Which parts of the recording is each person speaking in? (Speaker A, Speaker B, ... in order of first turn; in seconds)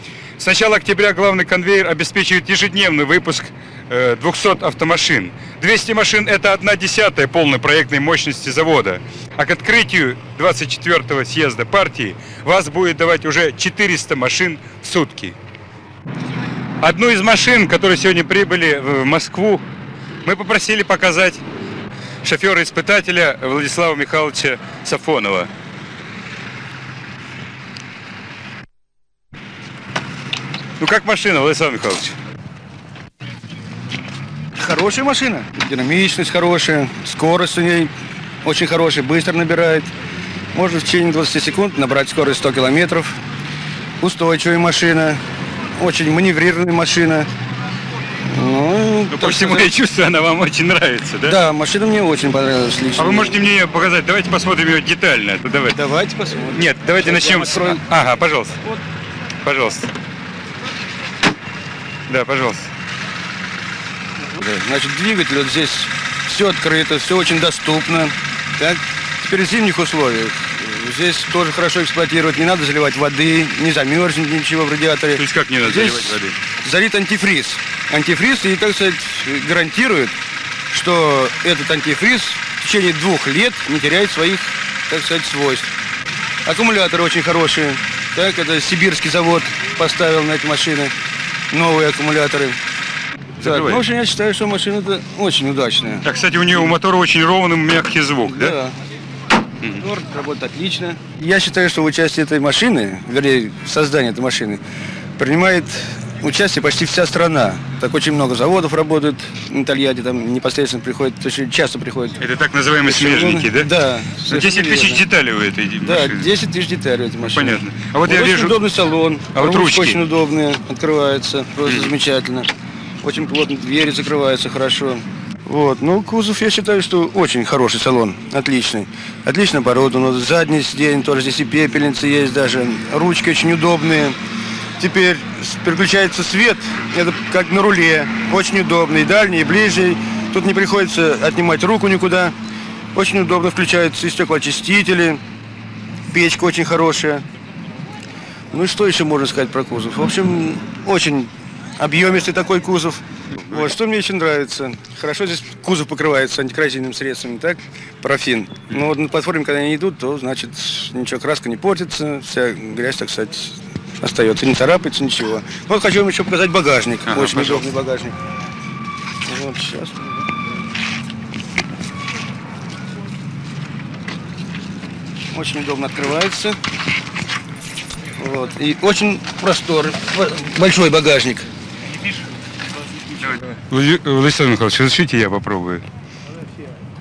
Speaker A: 0.4-15.4, 16.8-19.6, 20.2-21.4, 22.2-25.5, 30.8-32.1, 49.1-51.4, 53.0-55.8, 56.5-58.6, 59.4-59.9, 62.1-62.7, 75.1-76.4, 93.4-93.8, 96.0-98.5, 112.2-113.7, 114.3-116.3, 117.2-118.6, 119.3-120.0, 121.7-121.9, 153.3-153.7, 167.1-167.7, 183.2-185.8
Speaker B: 34.5-37.9, 38.4-39.9, 40.5-43.2, 44.0-45.2, 45.8-47.3, 48.2-49.7, 51.2-53.4, 55.7-57.8, 64.3-80.1, 80.7-85.7, 86.4-90.9, 91.5-92.6, 93.4-96.1, 98.2-98.7, 99.8-104.6, 105.2-112.2, 112.8-115.0, 115.8-122.5, 123.0-134.2, 134.8-142.3, 142.9-145.2, 146.1-147.2, 148.5-168.2, 169.3-170.2, 175.3-176.6, 178.2-181.5